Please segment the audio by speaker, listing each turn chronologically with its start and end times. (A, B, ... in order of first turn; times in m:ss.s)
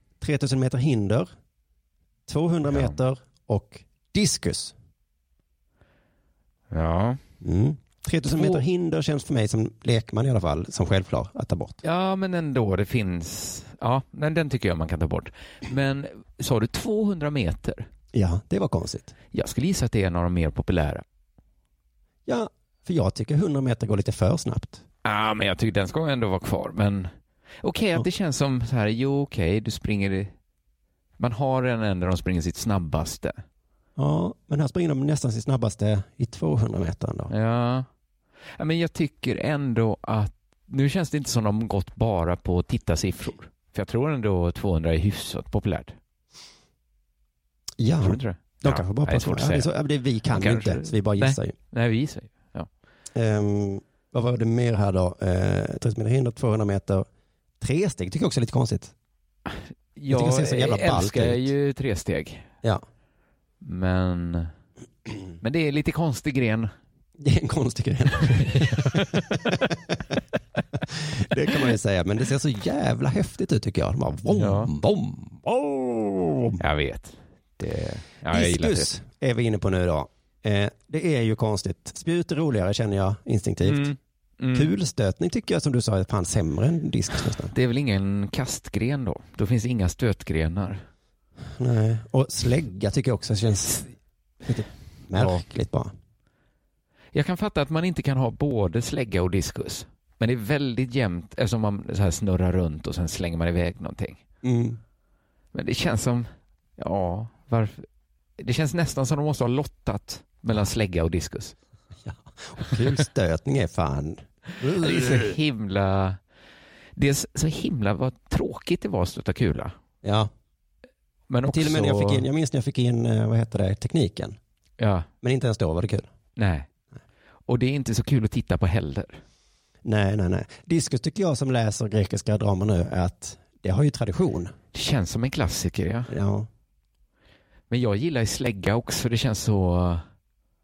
0:00.2-0:01.3 A
0:02.3-0:04.8 A
0:02.7-0:03.0 B
0:06.7-0:07.2 B
0:07.4-0:11.8 A
0:08.3-0:08.6 B
0:11.8-0:17.9 B
0:18.1-0:19.1 A
0:19.3-0:21.0 B
0:22.3-0:24.8 A
0:25.0-0:30.3 B
0:31.2-0:33.4 B
0:34.0-0:37.3 A
0:37.3-0:37.9 B
0:38.6-0:46.0 B
0:47.8-0:51.6 A
0:48.0-0:49.7 B
0:50.3-0:52.7 B
0:53.1-0:57.1 A
0:57.6-0:58.9 A
0:59.5-1:02.5 B
1:00.1-1:01.5 A
1:03.6-1:04.5 B
1:05.4-1:06.7 B
1:07.2-1:10.0 A
1:08.5-1:09.2 B
1:10.9-1:16.6 A
1:14.3-1:14.7 B
1:16.6-1:18.9 B
1:18.3-1:24.0 A
1:23.6-1:24.7 B
1:24.5-1:27.5 A
1:27.5-1:30.8 B
1:31.6-1:33.9 A
1:34.4-1:35.9 A
1:35.1-1:35.4 B
1:37.1-1:44.2 B
1:44.4-1:44.8 A
1:45.5-1:47.9 B
1:48.4-1:51.6 B
1:52.0-1:55.4 A
1:54.6-1:56.2 B
1:57.0-1:59.8 B
2:00.0-2:00.3 A
2:01.3-2:02.3 B
2:01.5-2:04.4 A
2:04.8-2:05.1 B
2:05.2-2:06.1 A
2:06.4-2:06.7 B
2:07.5-2:09.2 B
2:09.8-2:14.5 A
2:14.7-2:16.1 B
2:16.1-2:16.5 A
2:17.7-2:20.0 B